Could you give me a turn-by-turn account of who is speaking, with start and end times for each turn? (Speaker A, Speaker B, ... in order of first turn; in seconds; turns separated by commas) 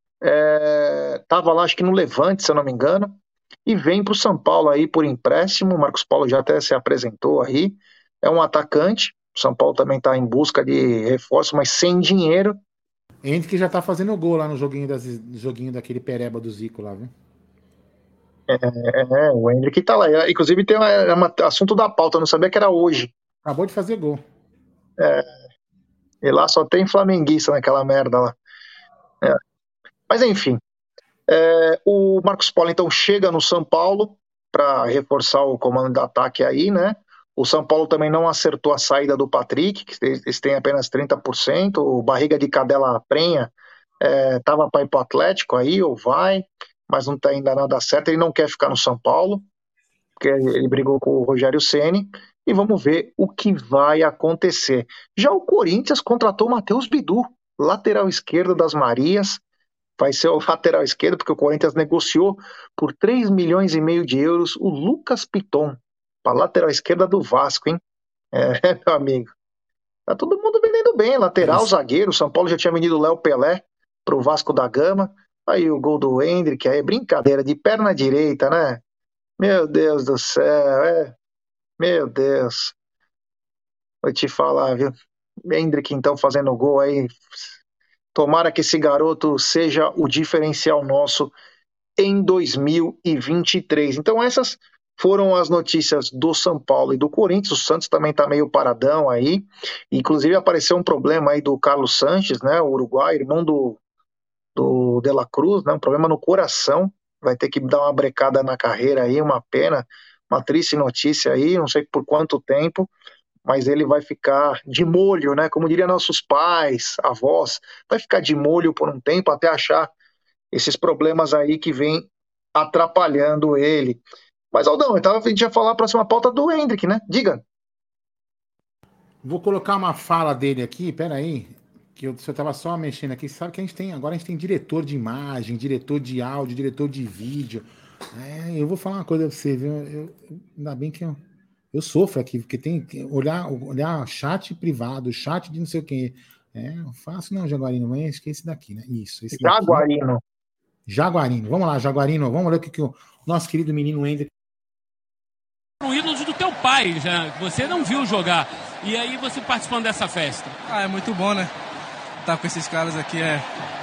Speaker A: 0.2-12.6, Speaker B: 13.2-17.1, Speaker A: 18.5-23.1, Speaker B: 23.4-24.2, Speaker A: 25.0-25.3, Speaker A: 26.2-28.4, Speaker A: 30.1-30.6, Speaker A: 31.3-49.5, Speaker A: 50.2-59.4, Speaker A: 60.0-67.8, Speaker A: 68.3-69.3, Speaker A: 70.1-78.8, Speaker B: 71.4-71.7, Speaker A: 79.4-81.2, Speaker A: 81.8-82.8, Speaker A: 84.0-84.9, Speaker A: 85.5-87.4, Speaker A: 88.1-91.3, Speaker A: 92.0-103.8, Speaker A: 104.6-112.9, Speaker A: 113.5-119.9, Speaker A: 120.5-124.0, Speaker A: 124.5-127.5, Speaker B: 129.2-141.2, Speaker B: 141.7-149.8, Speaker A: 149.3-150.2, Speaker B: 150.9-154.3, Speaker C: 155.8-160.6, Speaker D: 160.7-161.5, Speaker D: 162.2-163.4